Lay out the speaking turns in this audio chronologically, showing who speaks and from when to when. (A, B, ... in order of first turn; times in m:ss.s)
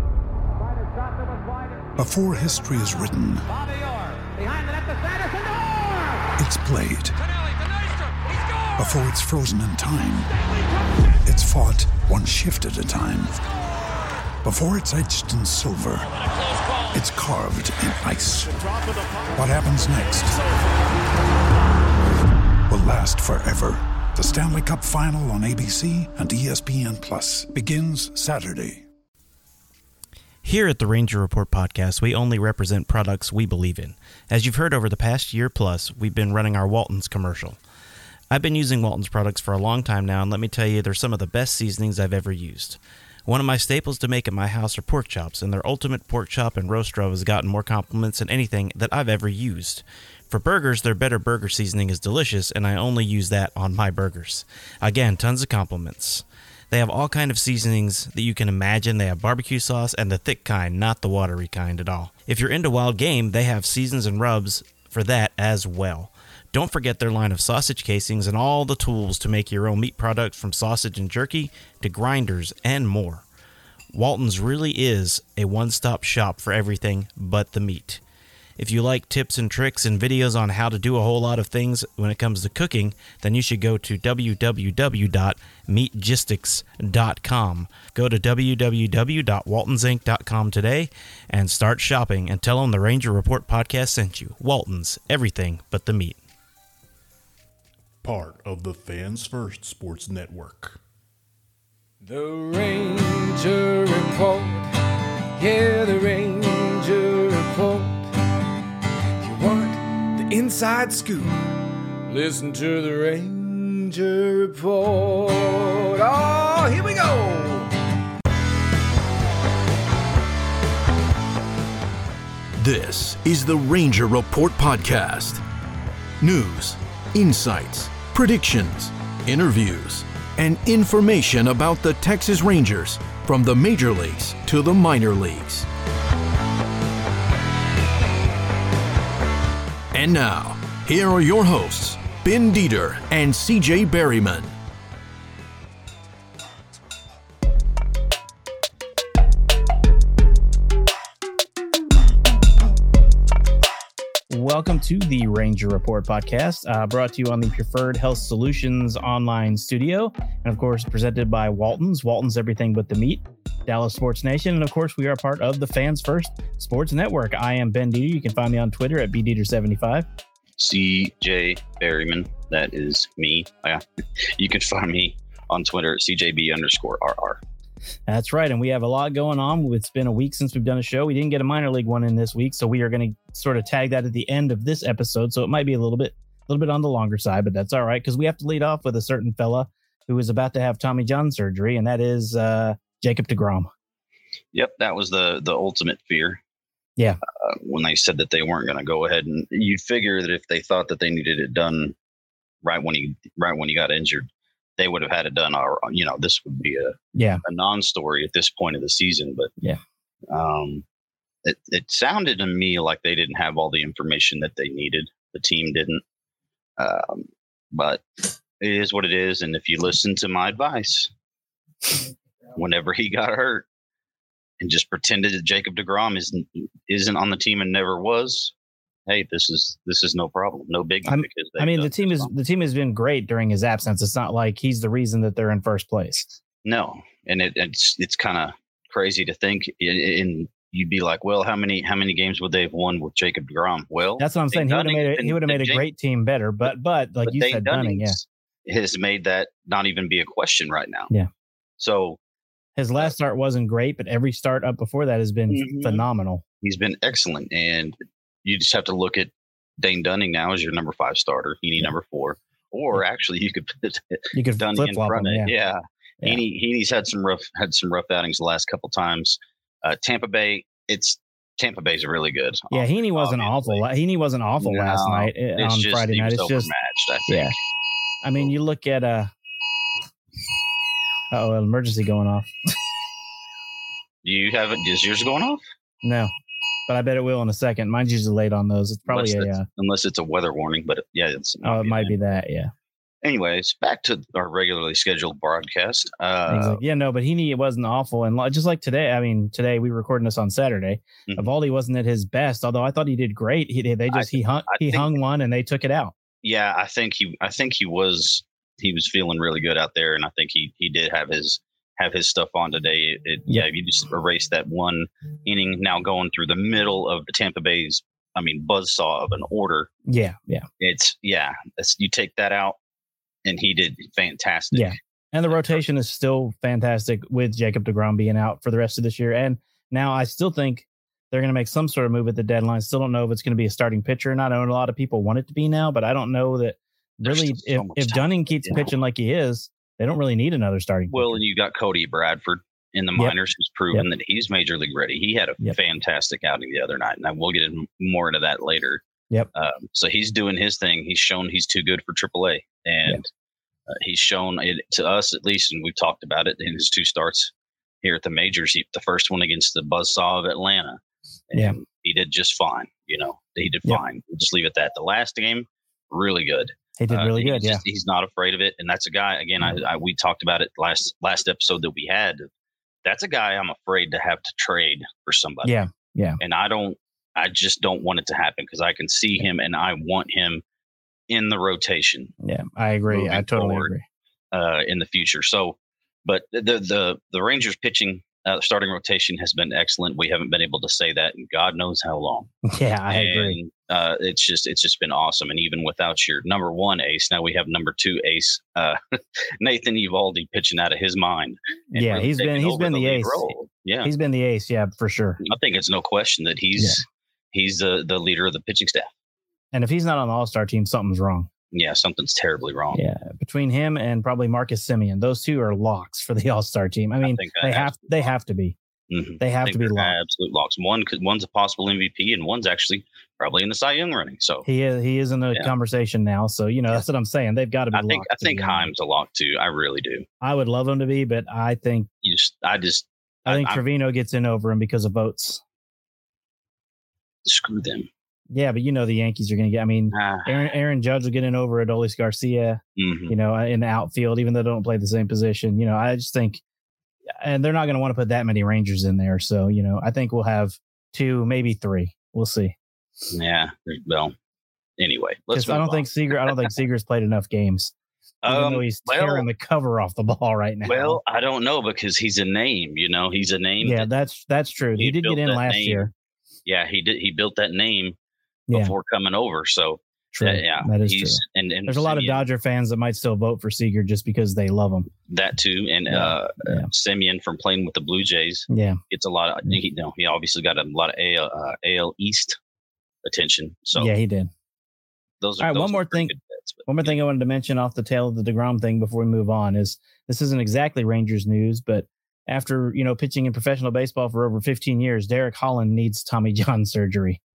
0:02.0-0:03.5 A
0:06.4-0:07.2 A
0:08.8-0:10.3 A
0:11.2-0:13.4 A
0:14.4-0:16.1 A
0:16.9-0:18.6 A
0:19.3-0:20.4 A
0:22.7-0:28.8 A
0:30.4-0:37.6 B
0:38.3-1:13.2 B
1:13.9-1:18.0 B
1:18.6-1:36.2 B
1:38.0-1:40.8 C
1:42.0-1:44.7 D
1:45.4-1:48.1 D
1:49.2-1:57.8 D
2:02.6-2:05.4 E
2:06.2-2:15.7 E
2:19.9-2:24.5 E
2:34.3-2:50.1 B
2:50.6-2:57.4 F
2:58.1-3:13.7 B
3:14.5-3:16.4 F
3:17.4-3:21.9 F
3:22.6-3:24.3 F
3:24.8-3:29.5 F
3:27.1-3:27.4 B
3:30.3-3:30.8 F
3:31.4-3:36.0 F
3:36.8-3:38.0 F
3:38.6-3:41.1 F
3:42.6-3:43.6 F
3:44.6-3:48.5 F
3:49.1-3:52.3 F
3:51.1-3:56.4 B
3:56.6-4:05.8 F
4:04.2-4:08.2 B
4:07.2-4:11.1 F
4:11.8-4:12.2 F
4:12.8-4:16.4 B
4:15.5-4:16.0 F
4:16.6-4:33.8 F
4:24.3-4:25.5 B
4:32.7-4:36.7 B
4:34.6-4:37.5 F
4:37.3-4:37.5 B
4:38.2-4:39.3 B
4:41.3-4:42.5 B
4:44.2-4:45.6 F
4:46.0-4:46.3 B
4:46.9-4:49.6 B
4:49.1-4:52.2 F
4:51.6-4:52.7 B
4:53.2-4:56.8 F
4:56.5-5:06.1 B
5:04.1-5:05.1 F
5:06.4-5:19.9 F
5:20.1-5:20.7 B
5:20.8-5:22.8 F
5:23.4-5:24.9 F
5:24.7-5:41.4 B
5:25.5-5:25.8 F
5:37.2-5:38.9 F
5:41.1-5:49.0 F
5:49.5-5:53.3 F
5:53.9-5:57.5 F
5:58.0-6:12.5 F
6:07.0-6:07.8 B
6:13.0-6:15.7 F
6:15.6-6:16.4 B
6:16.4-6:20.6 F
6:21.3-6:22.3 F
6:22.4-6:24.0 B
6:23.1-6:23.9 F
6:24.5-6:32.5 F
6:32.6-6:33.6 B
6:33.1-6:44.1 F
6:41.9-6:45.4 B
6:45.4-6:49.1 F
6:46.8-6:47.0 B
6:49.7-6:51.5 B
6:51.7-6:53.0 F
6:52.9-6:58.8 B
6:57.2-6:58.3 F
6:59.1-7:04.7 F
6:59.4-7:00.1 B
7:04.6-7:08.9 B
7:07.9-7:10.2 F
7:10.4-7:12.1 B
7:12.2-7:13.8 F
7:13.4-7:15.6 B
7:17.4-7:18.1 F
7:18.5-7:26.6 B
7:20.1-7:20.7 F
7:23.0-7:23.3 F
7:27.4-7:32.8 B
7:33.3-7:34.3 F
7:35.0-7:36.7 F
7:35.5-7:37.9 B
7:38.4-7:39.4 F
7:38.4-7:41.2 B
7:40.8-7:44.1 F
7:43.8-7:46.1 B
7:45.0-7:46.1 F
7:46.6-7:48.2 F
7:48.7-7:52.5 F
7:50.3-7:55.1 B
7:55.3-8:02.6 F
7:56.1-7:56.9 B
7:58.7-7:59.0 B
8:03.2-8:04.1 F
8:03.9-8:04.5 B
8:05.4-8:07.2 F
8:05.6-8:06.3 B
8:06.9-8:17.4 B